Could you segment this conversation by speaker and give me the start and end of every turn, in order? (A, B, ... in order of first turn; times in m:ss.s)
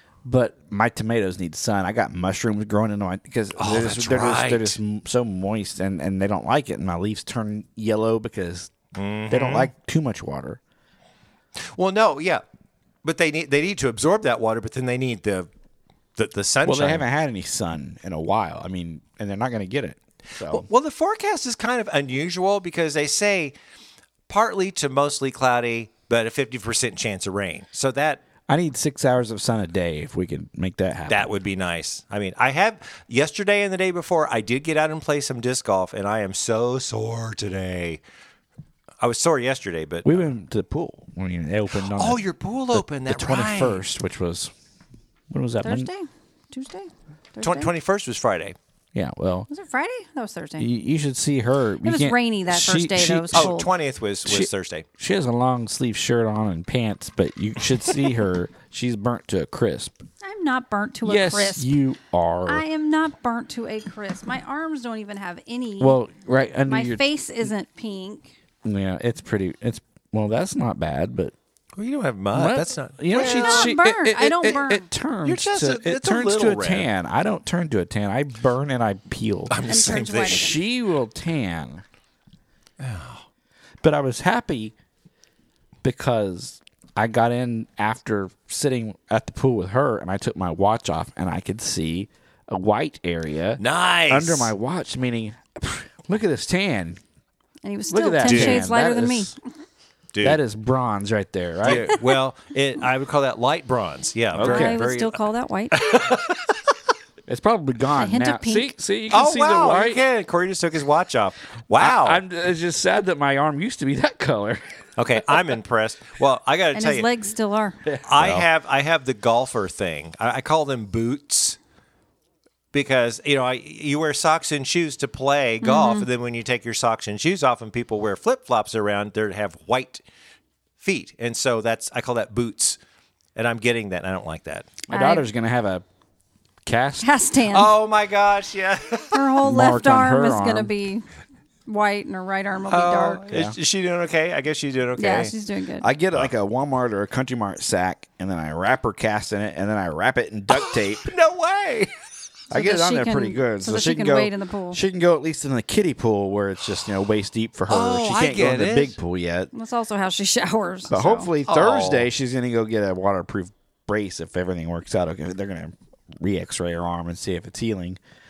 0:00.2-0:08.7 A
0:03.6-0:04.8 B
0:09.0-0:09.7 B
0:09.3-0:10.6 A
0:11.6-0:12.4 B
0:13.0-0:15.5 B
0:16.2-0:17.0 B
0:16.6-0:20.6 A
0:20.5-0:23.6 B
0:24.3-0:28.2 B
0:28.5-0:31.3 A
0:31.1-0:38.0 B
0:39.0-0:40.3 B
0:40.0-0:42.2 A
0:41.9-0:43.8 B
0:42.7-0:44.5 A
0:45.3-0:45.9 A
0:45.6-0:47.7 C
0:47.4-0:48.6 B
0:48.9-0:49.5 A
0:49.5-0:50.7 C
0:50.6-0:53.5 A
0:51.8-0:53.7 C
0:53.3-0:54.9 B
0:54.3-1:00.0 A
1:00.2-1:01.7 C
1:01.0-1:02.6 A
1:02.5-1:06.0 C
1:05.8-1:07.0 A
1:06.7-1:08.3 C
1:08.6-1:11.3 A
1:11.8-1:13.7 B
1:12.3-1:21.8 A
1:13.1-1:14.9 C
1:15.2-1:16.9 B
1:19.5-1:20.5 B
1:19.6-1:20.6 C
1:22.8-1:23.2 B
1:23.8-1:24.8 A
1:25.8-1:37.0 A
1:33.6-1:34.5 B
1:37.6-1:39.4 C
1:37.9-1:39.3 A
1:38.2-1:38.7 B
1:40.1-1:40.4 B
1:40.2-1:41.9 A
1:41.6-1:45.2 B
1:44.3-1:44.8 A
1:44.4-1:45.8 C
1:45.7-1:46.6 B
1:47.3-1:50.0 A
1:48.0-1:48.7 C
1:49.1-1:52.2 B
1:51.8-1:55.5 A
1:55.0-1:57.1 B
1:56.7-1:57.8 C
1:57.9-1:58.5 A
1:58.0-2:01.6 B
2:02.7-2:10.0 B
2:05.6-2:06.1 C
2:10.8-2:12.8 B
2:13.4-2:14.7 B
2:14.9-2:15.8 A
2:14.9-2:15.2 C
2:16.6-2:17.1 A
2:17.0-2:17.7 C
2:17.5-2:19.2 B
2:19.1-2:21.1 C
2:19.4-2:20.7 A
2:21.7-2:23.2 C
2:22.7-2:25.3 B
2:23.3-2:23.6 A
2:25.0-2:25.9 C
2:25.8-2:31.1 A
2:30.5-2:31.9 B
2:32.5-2:39.5 A
2:32.5-2:34.8 C
2:37.7-2:39.0 B
2:39.5-2:41.3 C
2:40.9-2:48.0 A
2:41.5-2:42.1 B